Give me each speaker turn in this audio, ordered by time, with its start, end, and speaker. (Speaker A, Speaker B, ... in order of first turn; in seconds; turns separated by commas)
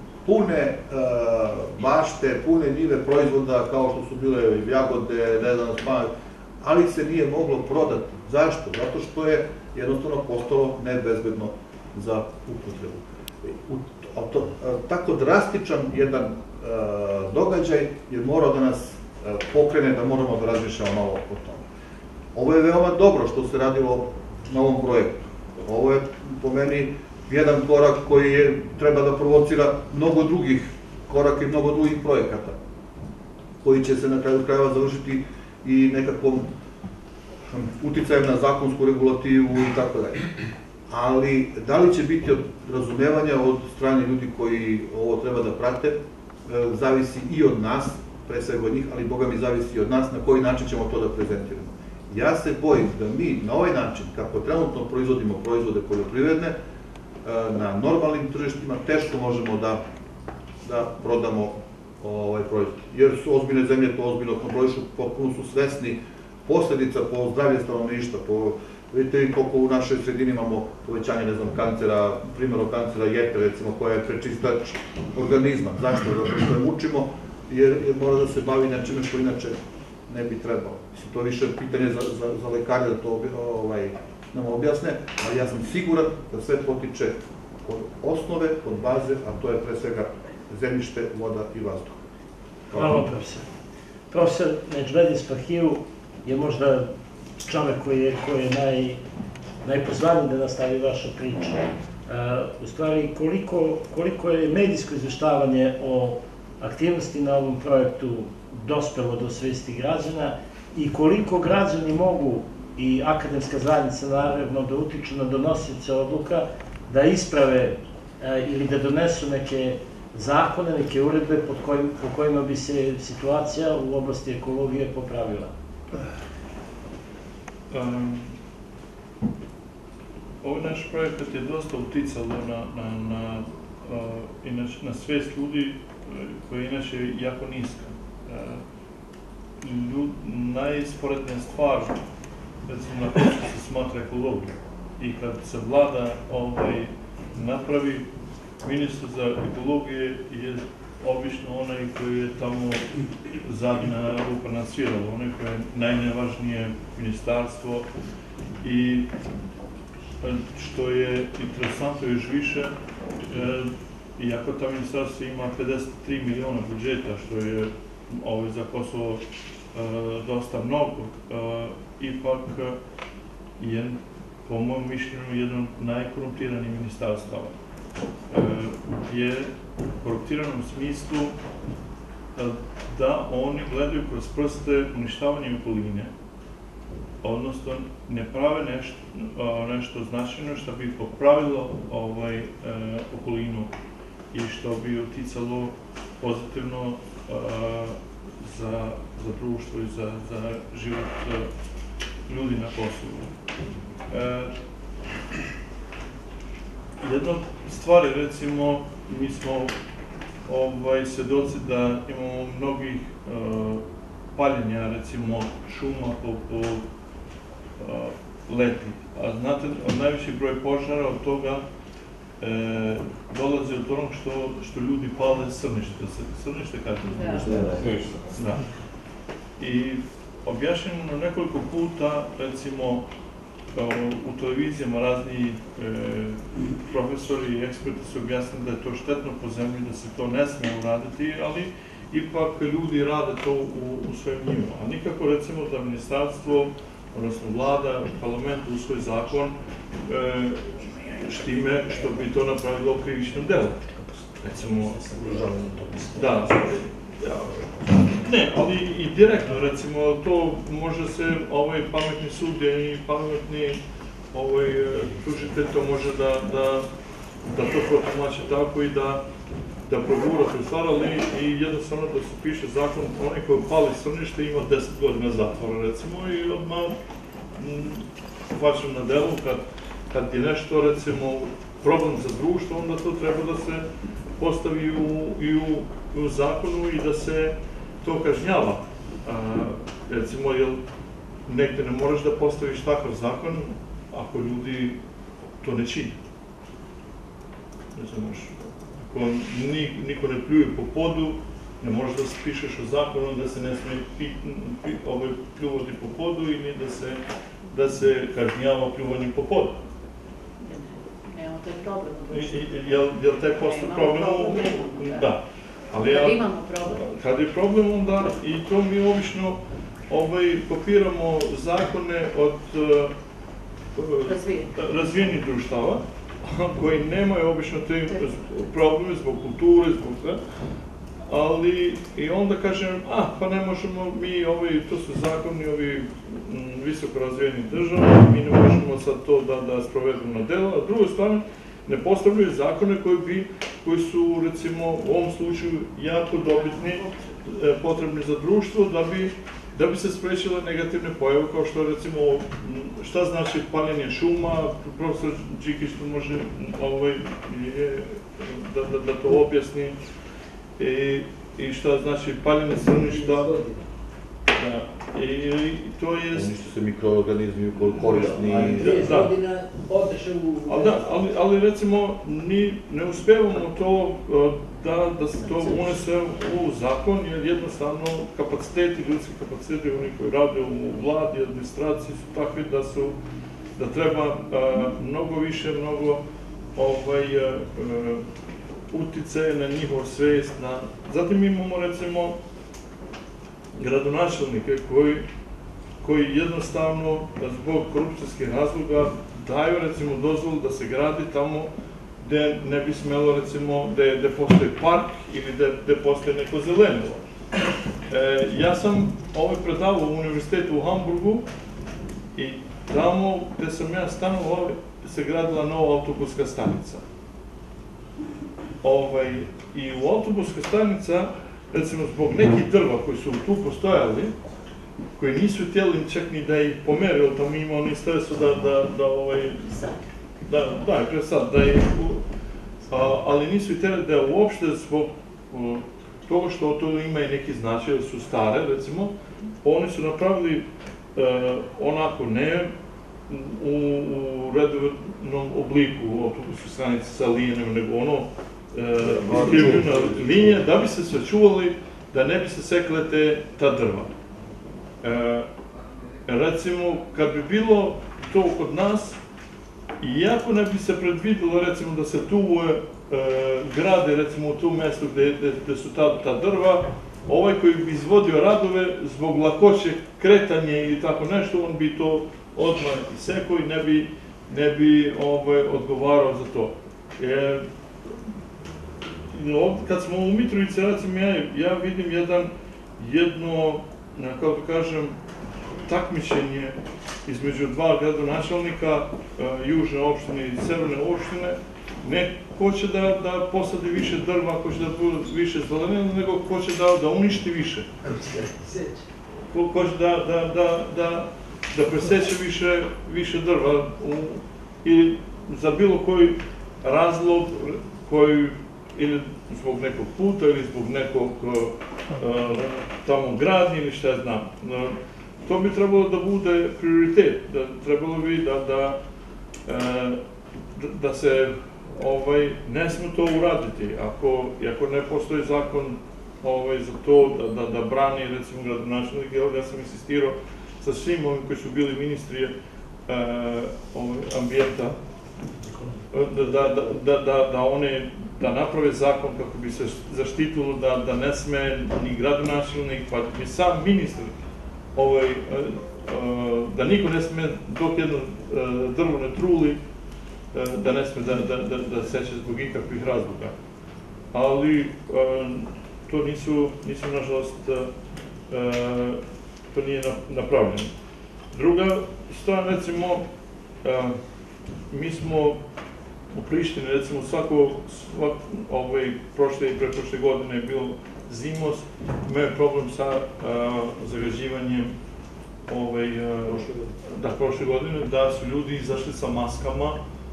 Speaker A: 0.2-6.1, Speaker A: 6.6-21.6, Speaker A: 22.3-32.6, Speaker A: 33.6-36.5, Speaker A: 37.5-56.5, Speaker A: 57.2-59.8, Speaker A: 60.6-92.1, Speaker B: 92.7-93.5, Speaker A: 92.7-93.0, Speaker B: 94.1-99.0, Speaker B: 99.6-125.5, Speaker C: 127.7-128.3, Speaker C: 130.4-138.6, Speaker C: 139.6-141.9, Speaker C: 142.7-148.1, Speaker C: 148.6-157.9, Speaker C: 158.6-159.1, Speaker C: 160.2-162.8, Speaker C: 163.3-172.8, Speaker C: 173.6-177.5, Speaker C: 178.3-181.3, Speaker C: 182.4-186.1, Speaker C: 187.2-193.7, Speaker C: 194.3-201.5, Speaker C: 202.3-203.3, Speaker C: 204.1-204.5, Speaker C: 207.0-209.7, Speaker C: 210.5-216.8, Speaker C: 217.8-221.7, Speaker C: 222.4-228.6, Speaker D: 227.1-227.9, Speaker C: 229.6-233.1, Speaker C: 233.7-249.6, Speaker C: 250.1-255.4, Speaker C: 256.1-263.8, Speaker C: 264.3-266.9, Speaker C: 267.5-269.2, Speaker C: 269.9-276.9, Speaker C: 277.6-283.9, Speaker C: 284.4-290.8, Speaker C: 291.5-295.0, Speaker C: 295.6-296.2, Speaker C: 297.9-298.6, Speaker C: 299.1-309.8, Speaker D: 310.6-312.7, Speaker C: 312.3-316.4, Speaker D: 313.5-315.3, Speaker D: 315.9-317.1, Speaker C: 317.1-323.1, Speaker C: 323.9-330.4, Speaker D: 324.2-324.7, Speaker D: 328.1-328.4, Speaker C: 331.3-360.0, Speaker D: 346.4-347.2, Speaker C: 360.8-363.5, Speaker E: 362.9-363.8, Speaker C: 365.1-366.6, Speaker A: 366.3-369.2, Speaker C: 368.1-369.4, Speaker E: 368.1-371.2, Speaker C: 370.7-383.2, Speaker E: 375.4-375.9, Speaker C: 383.8-386.2, Speaker C: 386.8-388.2, Speaker C: 388.9-392.4, Speaker C: 393.8-395.3, Speaker C: 396.0-401.7, Speaker C: 402.2-407.2, Speaker C: 408.1-411.4, Speaker C: 412.4-417.0, Speaker C: 418.8-424.4, Speaker C: 425.2-429.9, Speaker C: 430.5-432.2, Speaker C: 432.9-442.7, Speaker C: 443.3-454.1, Speaker A: 449.0-450.6, Speaker C: 455.0-455.5, Speaker C: 456.3-459.2, Speaker C: 460.0-477.6, Speaker C: 479.3-485.2, Speaker C: 485.9-497.9, Speaker C: 499.5-519.0, Speaker C: 519.6-520.2, Speaker C: 520.8-532.5, Speaker C: 533.1-535.0, Speaker C: 536.1-544.3, Speaker C: 545.0-549.8, Speaker C: 550.5-553.5, Speaker C: 554.3-557.9, Speaker C: 558.5-560.9, Speaker C: 561.5-563.3, Speaker C: 563.8-564.2, Speaker C: 564.9-565.6, Speaker C: 566.3-574.9, Speaker C: 575.7-580.0